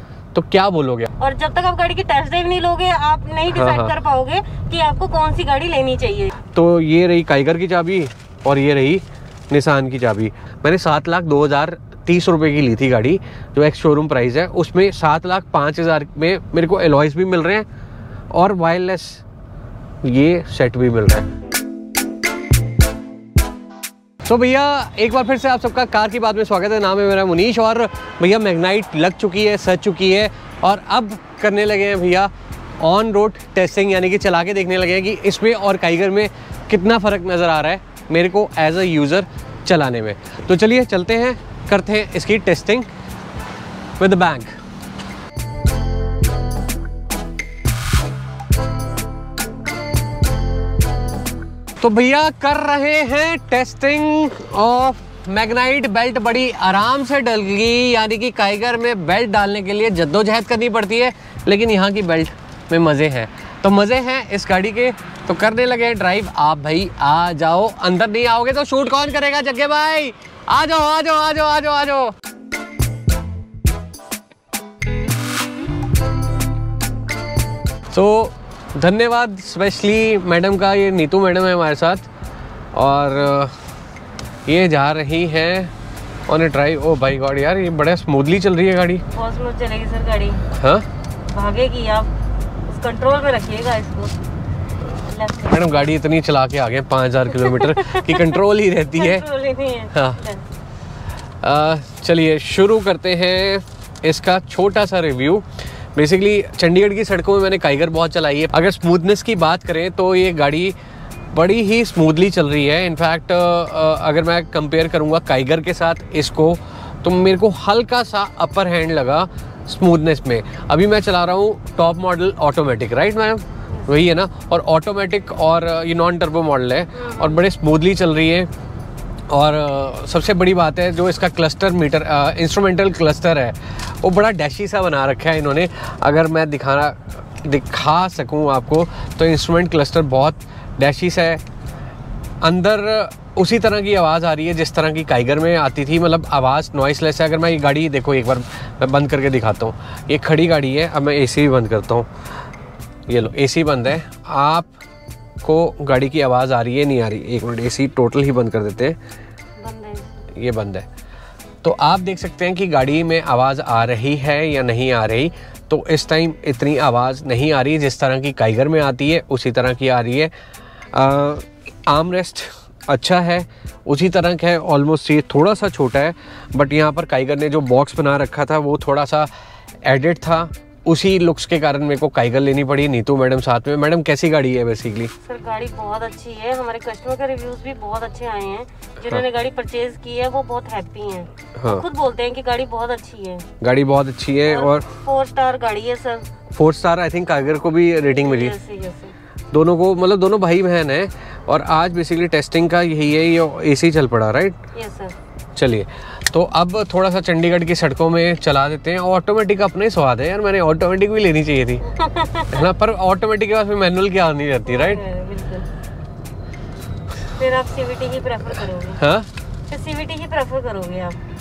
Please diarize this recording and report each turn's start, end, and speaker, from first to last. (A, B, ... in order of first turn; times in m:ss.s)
0:00.3-0:01.1 A
0:01.2-0:06.4 B
0:03.5-0:03.9 A
0:06.5-0:17.6 A
0:18.3-0:19.2 A
0:20.0-0:21.3 A
0:24.2-0:42.9 A
0:44.0-0:44.6 A
0:51.8-1:12.1 A
1:17.9-1:22.1 A
1:22.7-1:23.5 A
1:24.5-1:25.7 A
1:26.3-1:29.0 A
1:29.1-1:30.5 B
1:30.5-1:30.8 A
1:31.3-1:32.1 B
1:32.6-1:34.2 B
1:35.0-1:35.9 B
1:35.4-1:39.3 A
1:37.3-1:40.4 B
1:39.9-1:40.2 A
1:41.4-1:45.4 A
1:46.0-1:50.7 A
1:51.3-2:08.5 A
2:06.9-2:07.4 B
2:09.3-2:21.4 A
2:22.4-2:32.1 A
2:33.1-2:34.7 A
2:35.4-2:39.0 A
2:39.6-2:40.1 B
2:40.4-2:40.8 A
2:41.6-2:50.3 A
2:50.9-2:59.3 A
2:59.8-3:05.1 A
3:05.2-3:13.5 B
3:11.6-3:11.8 A
3:13.6-3:14.9 A
3:14.4-3:16.3 B
3:16.5-3:18.6 A
3:18.2-3:19.1 B
3:19.5-3:24.6 A
3:24.7-3:25.1 B
3:25.6-3:31.9 A
3:31.8-3:32.6 B
3:32.5-3:35.0 A
3:34.6-3:35.7 B
3:37.4-3:39.0 B
3:39.0-3:39.3 A
3:39.7-3:41.2 B